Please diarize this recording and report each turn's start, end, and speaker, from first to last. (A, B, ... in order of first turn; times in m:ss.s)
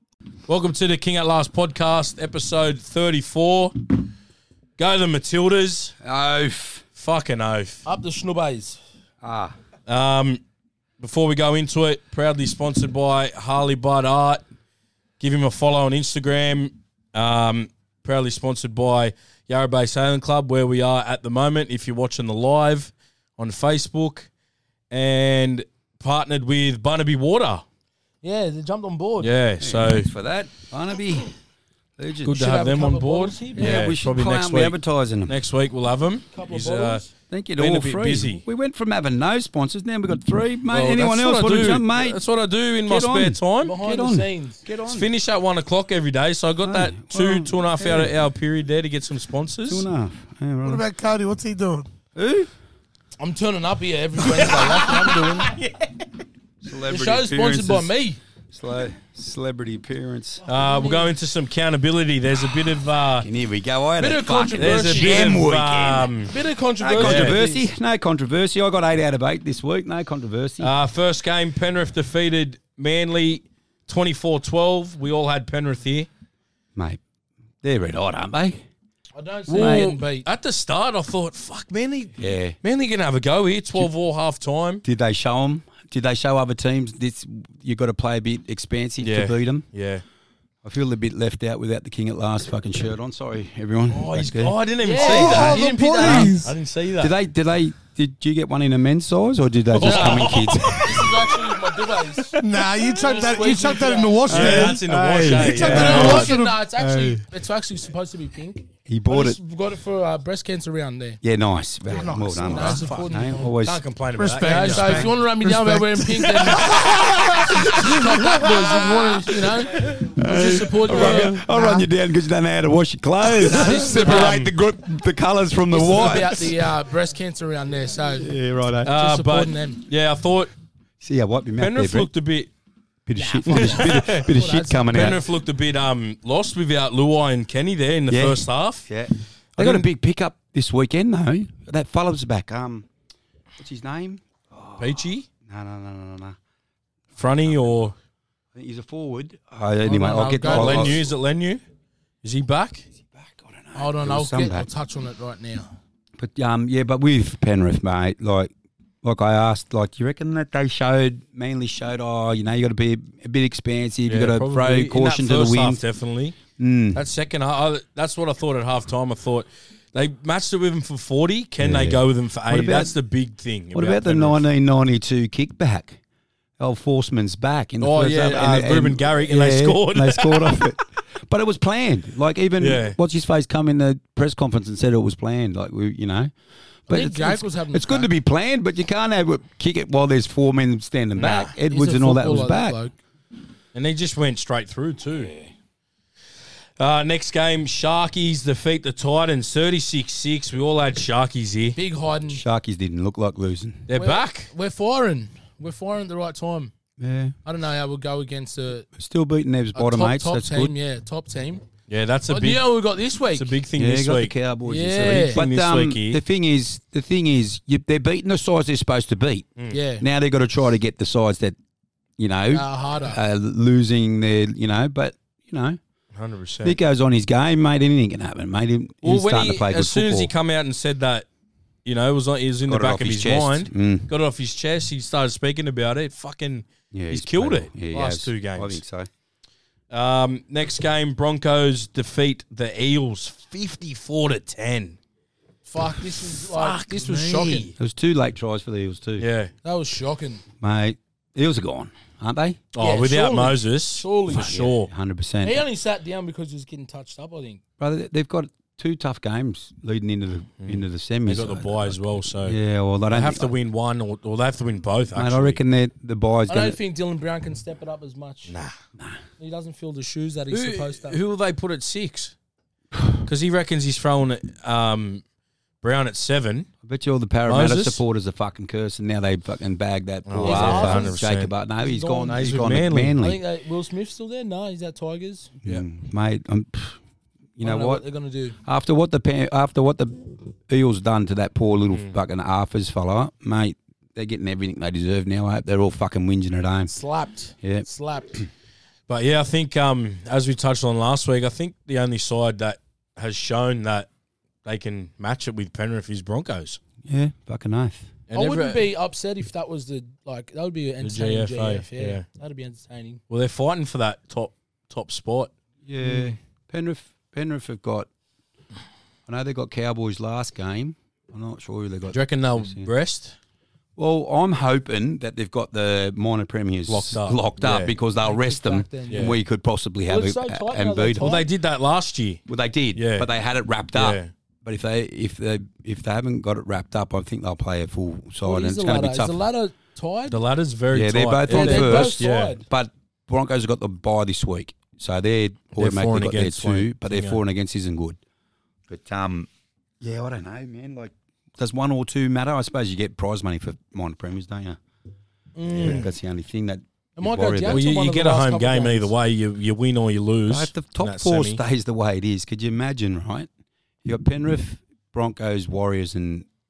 0:00.5-0:04.1 A
0:04.8-0:06.0 A
0:06.0-0:06.8 B
0:07.0-0:07.9 A
0:07.9-0:08.8 C
0:09.2-0:09.6 B
0:09.9-0:10.4 A
0:11.0-0:14.4 A
0:15.2-0:24.3 A
0:24.9-0:27.6 A
0:28.2-0:29.3 C
0:29.2-0:30.1 A
0:29.6-0:31.3 B
0:32.0-0:32.4 B
0:32.2-0:37.0 A
0:32.3-0:33.9 C
0:33.6-0:35.4 B
0:36.3-0:37.1 C
0:37.3-0:42.2 B
0:37.6-0:38.4 A
0:40.7-0:43.8 A
0:42.9-0:45.1 B
0:43.6-0:44.6 C
0:44.9-0:49.9 A
0:46.6-0:48.1 B
0:49.7-0:50.8 B
0:50.6-0:51.9 D
0:52.2-0:52.5 B
0:53.2-0:55.6 C
0:54.2-0:55.7 A
0:56.6-0:57.9 B
0:56.9-0:58.2 C
0:58.5-1:00.4 B
1:00.5-1:03.3 A
1:00.5-1:01.1 C
1:03.2-1:06.1 B
1:04.0-1:05.4 C
1:04.6-1:06.4 A
1:06.3-1:07.7 C
1:06.8-1:10.7 B
1:06.9-1:07.4 A
1:10.6-1:16.1 A
1:16.8-1:17.0 B
1:17.6-1:18.6 B
1:19.2-1:20.3 C
1:19.5-1:20.0 B
1:19.5-1:24.8 A
1:22.2-1:22.6 B
1:24.8-1:29.6 B
1:29.0-1:30.0 A
1:30.6-1:34.6 B
1:33.9-1:37.1 A
1:34.8-1:36.4 C
1:35.0-1:36.5 D
1:35.1-1:36.4 B
1:37.0-1:41.4 B
1:39.7-1:41.4 A
1:39.8-1:44.7 C
1:42.4-1:46.6 D
1:44.3-1:46.3 A
1:44.3-1:47.2 B
1:45.6-1:51.2 C
1:48.9-1:49.4 B
1:51.2-1:53.8 B
1:51.9-1:53.1 D
1:52.4-1:53.6 C
1:53.4-1:55.1 A
1:54.2-1:59.0 D
1:54.4-2:01.9 C
1:54.8-1:55.2 B
1:56.4-1:59.1 B
1:59.7-2:06.6 B
2:00.9-2:01.4 A
2:03.4-2:04.4 C
2:03.8-2:04.5 A
2:05.7-2:09.8 C
2:08.2-2:08.9 B
2:08.8-2:10.5 A
2:11.0-2:12.1 B
2:11.6-2:12.5 A
2:13.1-2:15.2 B
2:13.2-2:15.1 C
2:13.5-2:14.3 A
2:14.9-2:18.9 A
2:18.1-2:22.9 B
2:19.6-2:19.9 A
2:23.6-2:26.4 B
2:24.8-2:25.3 A
2:27.2-2:27.8 B
2:27.2-2:28.0 A
2:28.6-2:31.0 B
2:29.8-2:31.0 C
2:30.5-2:31.6 A
2:32.2-2:32.9 A
2:33.1-2:34.7 B
2:33.8-2:35.7 C
2:36.2-2:38.5 B
2:39.0-2:45.8 B
2:44.1-2:46.4 A
2:46.6-2:47.0 B
2:46.9-2:54.4 A
2:51.6-2:53.0 B
2:53.7-2:56.0 B
2:56.6-3:06.3 B
2:57.8-3:00.8 A
3:02.6-3:03.0 A
3:06.9-3:12.8 B
3:06.9-3:08.1 C
3:11.2-3:11.5 A
3:11.5-3:12.9 C
3:13.7-3:15.3 A
3:16.8-3:21.8 A
3:21.8-3:22.4 C
3:22.3-3:23.9 B
3:23.9-3:24.5 A
3:23.9-3:26.7 C
3:27.0-3:27.4 B
3:27.4-3:28.9 C
3:29.0-3:30.7 B
3:29.8-3:31.7 C
3:31.9-3:32.6 A
3:32.3-3:33.6 C
3:33.3-3:34.4 A
3:33.8-3:41.6 B
3:34.7-3:35.4 C
3:34.9-3:36.2 A
3:39.7-3:40.0 C
3:42.2-3:45.8 B
3:42.5-3:43.2 C
3:46.1-3:46.8 A
3:46.6-3:50.3 B
3:49.0-3:51.3 A
3:51.8-3:58.8 A
3:52.7-3:54.1 B
3:56.9-3:59.1 B
3:59.9-4:05.0 A
4:05.7-4:07.7 C
4:06.2-4:07.7 A
4:07.8-4:09.3 B
4:09.2-4:09.5 A
4:09.6-4:10.4 C
4:10.6-4:12.6 B
4:12.7-4:14.9 A
4:12.8-4:14.6 C
4:14.3-4:15.6 B
4:15.4-4:17.6 C
4:17.8-4:23.5 B
4:20.6-4:22.6 A
4:23.1-4:25.6 A
4:25.2-4:26.8 B
4:26.5-4:28.5 C
4:28.5-4:28.7 A
4:29.4-4:31.2 C
4:30.5-4:32.3 A
4:33.2-4:35.2 A
4:35.8-4:36.7 A
4:36.8-4:43.4 B
4:37.5-4:38.0 A
4:40.3-4:41.5 A
4:40.4-4:41.2 C
4:41.8-4:42.4 C
4:42.3-4:43.2 A
4:43.2-4:45.6 C
4:45.6-4:47.0 B
4:47.6-4:48.0 B
4:47.6-4:48.6 C
4:48.6-4:56.9 B
4:56.9-4:58.4 C
4:59.1-5:04.1 A
5:04.6-5:06.8 A
5:07.0-5:08.1 B
5:08.3-5:08.9 A
5:08.3-5:13.2 C
5:11.0-5:12.2 A
5:13.3-5:15.5 A
5:15.8-5:18.1 B
5:16.0-5:16.4 A
5:19.3-5:22.9 B
5:22.1-5:23.4 A
5:24.0-5:31.4 B
5:26.9-5:27.9 A
5:28.2-5:29.4 C
5:30.1-5:31.5 C
5:31.2-5:32.4 A
5:32.5-5:39.4 B
5:32.9-5:33.3 A
5:33.9-5:34.3 A
5:38.4-5:40.4 C
5:40.3-5:42.6 A
5:40.9-5:48.2 B
5:41.5-5:42.6 C
5:45.7-5:47.4 A
5:48.9-5:49.5 B
5:50.0-5:54.8 B
5:55.6-5:56.1 C
5:55.7-5:56.1 A
5:55.7-5:57.9 B
5:57.2-5:59.1 C
5:57.7-6:01.6 A
6:00.5-6:03.5 B
6:04.0-6:06.5 B